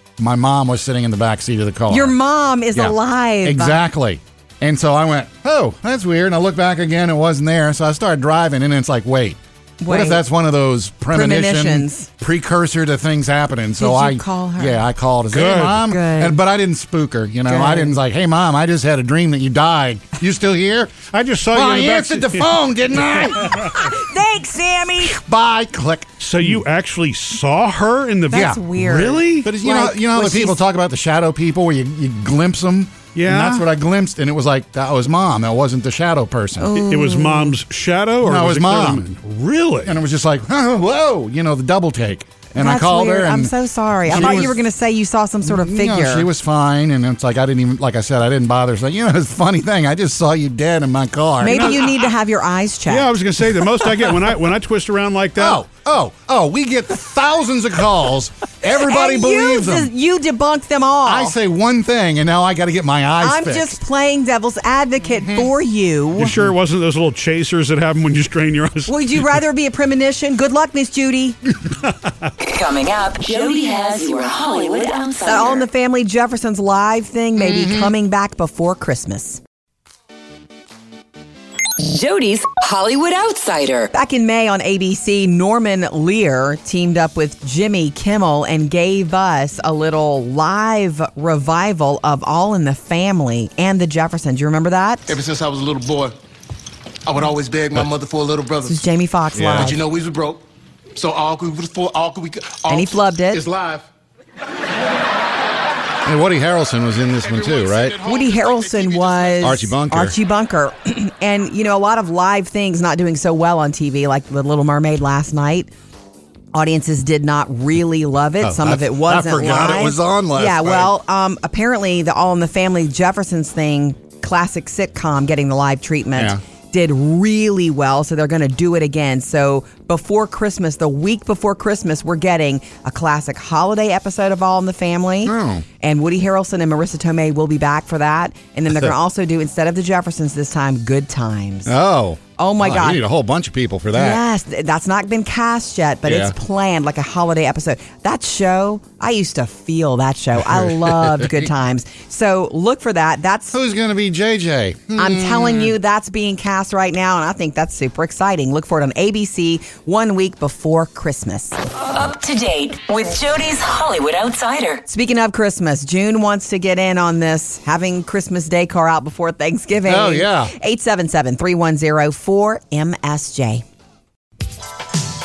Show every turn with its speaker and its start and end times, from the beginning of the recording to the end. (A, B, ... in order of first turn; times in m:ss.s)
0:00.2-0:02.2 A
0:01.9-0:03.8 B
0:02.7-0:24.0 A
0:09.8-0:10.2 B
0:11.1-0:12.1 B
0:13.8-0:14.8 B
0:15.3-0:15.8 C
0:15.8-0:16.4 B
0:17.5-0:18.0 B
0:21.1-0:22.6 C
0:23.6-0:25.2 B
0:25.0-0:26.6 A
0:26.2-0:29.5 C
0:28.3-0:30.6 B
0:28.3-0:28.6 A
0:29.4-0:36.8 A
0:33.2-0:33.7 C
0:36.6-0:37.6 B
0:36.8-0:40.0 C
0:38.2-0:39.1 A
0:39.8-0:43.5 A
0:42.6-0:46.3 B
0:44.1-0:44.6 A
0:44.1-0:44.5 C
0:45.4-0:51.9 A
0:51.4-0:53.1 B
0:52.9-0:55.6 C
0:55.4-0:59.9 A
0:58.7-1:01.4 B
1:01.1-1:03.8 A
1:03.2-1:06.4 B
1:05.2-1:05.5 A
1:06.2-1:08.9 C
1:08.9-1:11.4 B
1:12.4-1:15.6 D
1:15.2-1:19.4 B
1:17.4-1:17.9 A
1:21.8-1:23.9 D
1:23.9-1:35.0 B
1:35.1-1:36.2 E
1:37.1-1:38.8 E
1:38.7-1:39.8 B
1:39.4-1:39.8 A
1:39.5-1:40.4 E
1:41.0-1:43.9 E
1:42.7-1:43.4 B
1:46.0-1:48.0 A
1:47.2-1:49.6 E
1:48.0-1:55.7 B
1:49.4-1:50.2 A
1:56.5-2:21.7 B
1:58.4-2:00.9 A
2:06.2-2:06.4 A
2:15.2-2:15.7 A
2:21.7-2:24.2 A
2:22.4-2:23.0 B
2:23.9-2:33.6 B
2:26.1-2:26.3 A
2:30.4-2:31.5 A
2:33.5-2:35.8 A
2:35.0-2:41.6 B
2:41.8-2:44.8 D
2:44.9-2:53.6 B
2:49.9-2:50.5 A